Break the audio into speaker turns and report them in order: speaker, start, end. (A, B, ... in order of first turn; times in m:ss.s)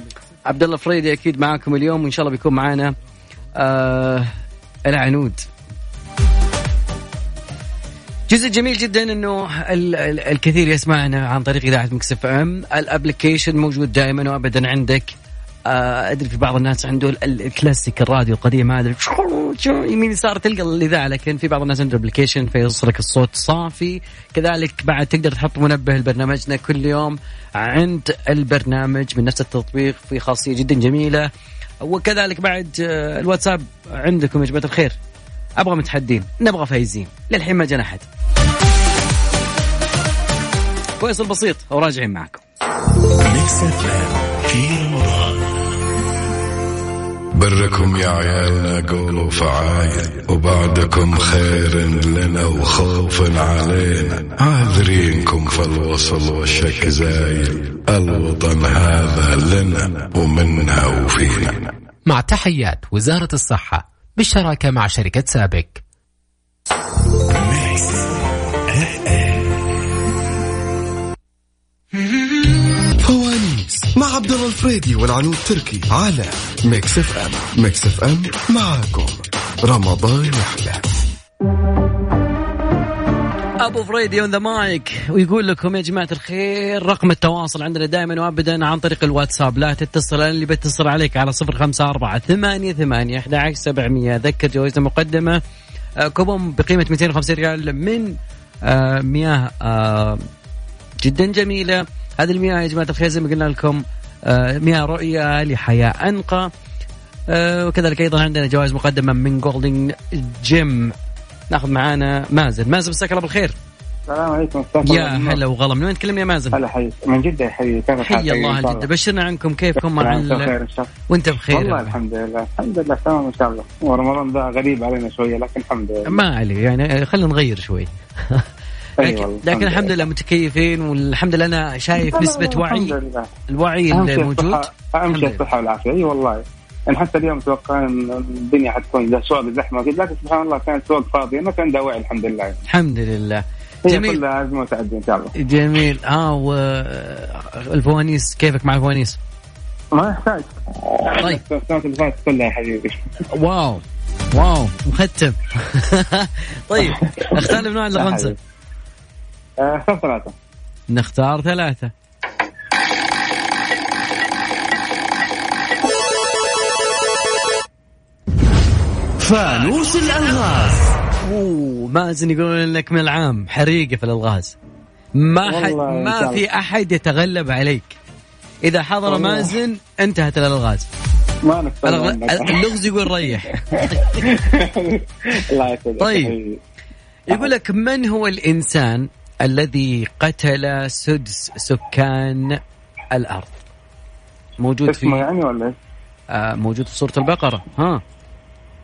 0:00.4-0:03.0 A
0:03.5-0:04.3 A
0:04.8-0:05.4 A
0:08.3-0:15.1 A
0:15.6-0:31.3 A
0:31.8-0:35.0 A
0:35.6-0:38.1 A
0:41.0-0:42.4 A
0:43.3-0:45.3 B
0:47.3-1:01.7 C
1:02.0-1:05.8 D
1:13.0-1:20.9 E
1:23.6-1:35.4 A
1:36.0-1:40.2 A
1:41.0-1:46.5 A
1:47.3-1:50.9 A
1:51.5-1:53.6 A
1:54.1-1:55.4 F
1:54.8-1:56.6 A
1:56.5-1:58.9 F
1:58.0-2:00.5 A
1:59.8-2:00.9 F
2:01.1-2:02.0 A
2:01.5-2:06.2 F
2:06.1-2:08.4 A
2:09.0-2:13.0 A
2:09.0-2:09.9 F
2:12.5-2:13.3 F
2:13.5-2:15.4 A
2:13.9-2:22.6 F
2:22.7-2:24.2 A
2:23.9-2:25.3 F
2:25.4-2:29.2 A
2:29.9-2:33.0 F
2:33.3-2:38.3 A
2:36.8-2:38.4 F
2:39.6-2:40.3 F
2:40.9-2:41.9 A
2:49.2-2:51.0 B
2:51.2-2:54.6 A
2:55.2-2:57.9 A
2:55.4-2:56.4 F
2:58.6-3:00.9 A
2:59.1-2:59.5 F
3:01.4-3:06.6 F
3:01.8-3:04.2 A
3:06.0-3:06.3 A
3:07.3-3:12.6 A
3:13.1-3:13.6 A
3:14.6-3:15.2 A
3:14.9-3:15.8 F
3:16.3-3:18.0 A